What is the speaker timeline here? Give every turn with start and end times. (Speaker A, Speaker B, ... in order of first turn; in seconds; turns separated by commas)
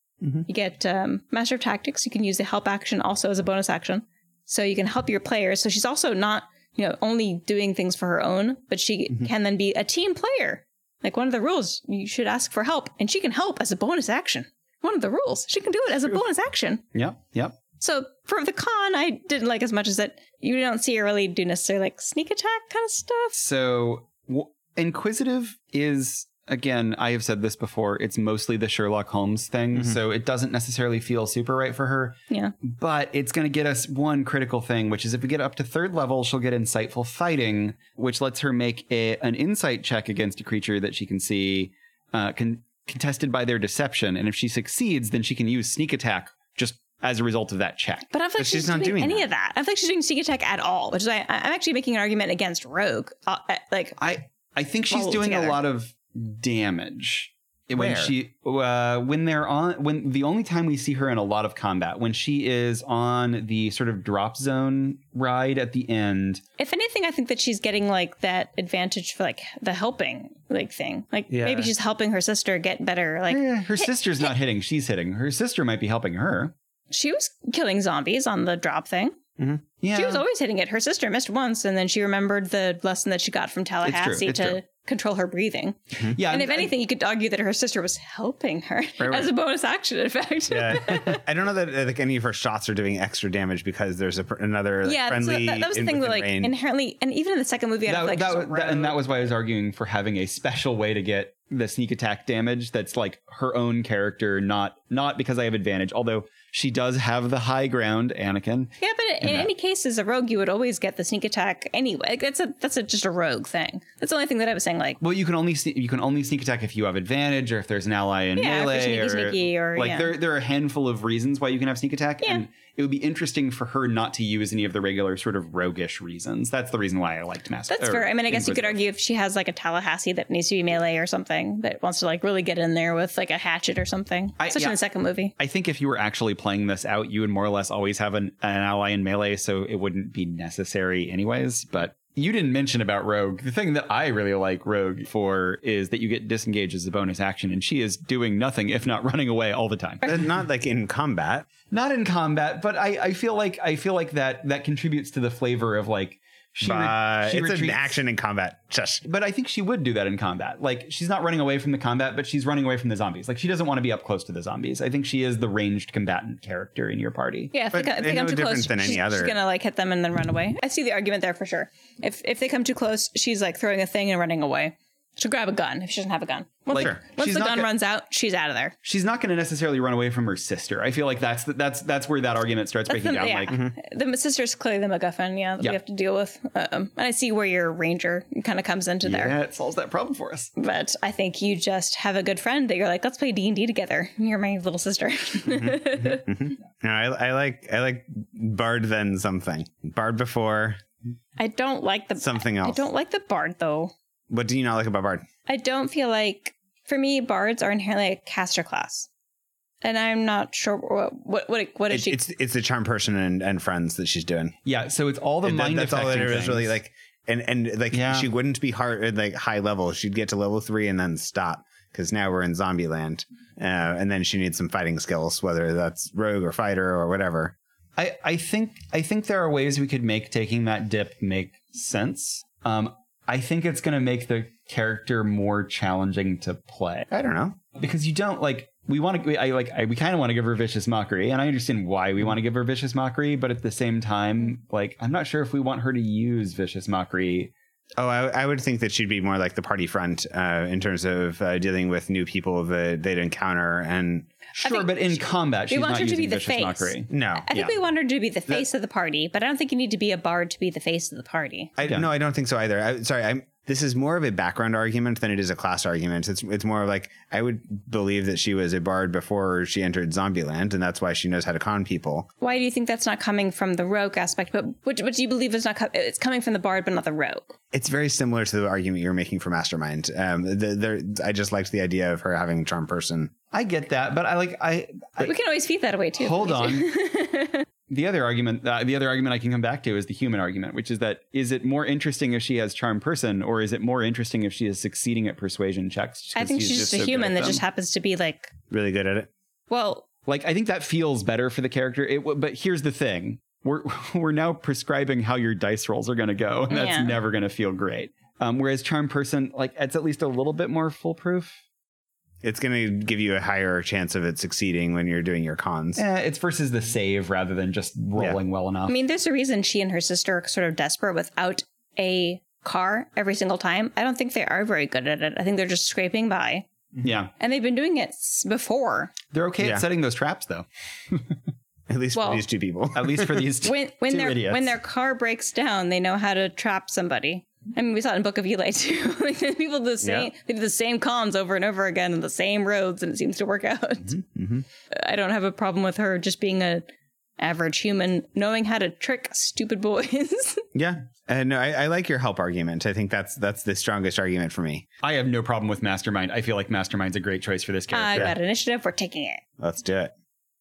Speaker A: 0.5-16.8, Speaker B: 16.9-17.6, Speaker A: 17.8-23.3, Speaker B: 23.3-48.1, Speaker A: 48.1-54.0, Speaker C: 48.4-49.3, Speaker B: 54.0-66.4, Speaker A: 54.9-55.6, Speaker C: 57.7-58.1, Speaker A: 66.6-74.3, Speaker C: 71.3-71.7, Speaker B: 73.3-76.5, Speaker A: 76.9-79.2, Speaker B: 79.8-80.2, Speaker A: 79.9-91.2, Speaker B: 83.8-84.6, Speaker B: 86.0-86.7, Speaker B: 89.0-89.3, Speaker C: 90.5-96.5, Speaker A: 94.8-99.0, Speaker B: 97.8-109.5, Speaker A: 108.8-115.0, Speaker B: 115.0-128.8, Speaker A: 118.3-120.1, Speaker A: 127.7-135.3, Speaker B: 134.4-134.8, Speaker B: 135.4-150.2, Speaker C: 150.0-151.5, Speaker B: 151.7-158.0, Speaker C: 156.6-159.0, Speaker B: 159.0-167.5, Speaker A: 167.5-178.7, Speaker C: 167.7-169.3, Speaker B: 176.7-177.7, Speaker B: 178.8-183.6, Speaker A: 182.9-189.3, Speaker B: 189.0-190.5, Speaker A: 190.6-196.3, Speaker C: 195.4-200.8, Speaker A: 201.4-203.9, Speaker C: 202.2-202.8, Speaker C: 204.3-205.2, Speaker A: 205.5-209.1, Speaker A: 209.8-212.2, Speaker C: 211.9-214.6, Speaker B: 214.6-216.7, Speaker C: 215.4-227.5, Speaker B: 217.9-218.3, Speaker B: 228.0-237.1, Speaker C: 237.1-237.6, Speaker B: 237.7-247.5, Speaker C: 248.0-254.3, Speaker B: 254.6-257.7, Speaker A: 254.6-261.7, Speaker C: 257.1-257.5, Speaker B: 261.8-262.1, Speaker C: 261.8-272.3, Speaker A: 272.4-277.5, Speaker C: 277.7-283.3, Speaker B: 283.5-285.3, Speaker A: 285.2-287.6, Speaker B: 286.2-286.9, Speaker B: 287.9-297.6, Speaker A: 296.4-298.5, Speaker C: 298.7-299.3, Speaker A: 299.7-300.1, Speaker B: 300.2-311.6, Speaker A: 306.7-307.1, Speaker C: 312.4-316.0, Speaker B: 315.9-319.0, Speaker A: 318.9-326.6, Speaker B: 327.0-327.3, Speaker A: 327.4-329.1, Speaker B: 329.3-331.2, Speaker C: 331.9-333.4, Speaker A: 332.1-332.4, Speaker B: 332.9-334.7, Speaker A: 333.6-344.2, Speaker C: 340.0-340.3, Speaker C: 344.1-344.6, Speaker A: 344.9-346.8, Speaker A: 347.4-350.6, Speaker C: 350.7-354.8, Speaker B: 355.0-358.3, Speaker A: 357.9-359.4, Speaker C: 359.6-360.1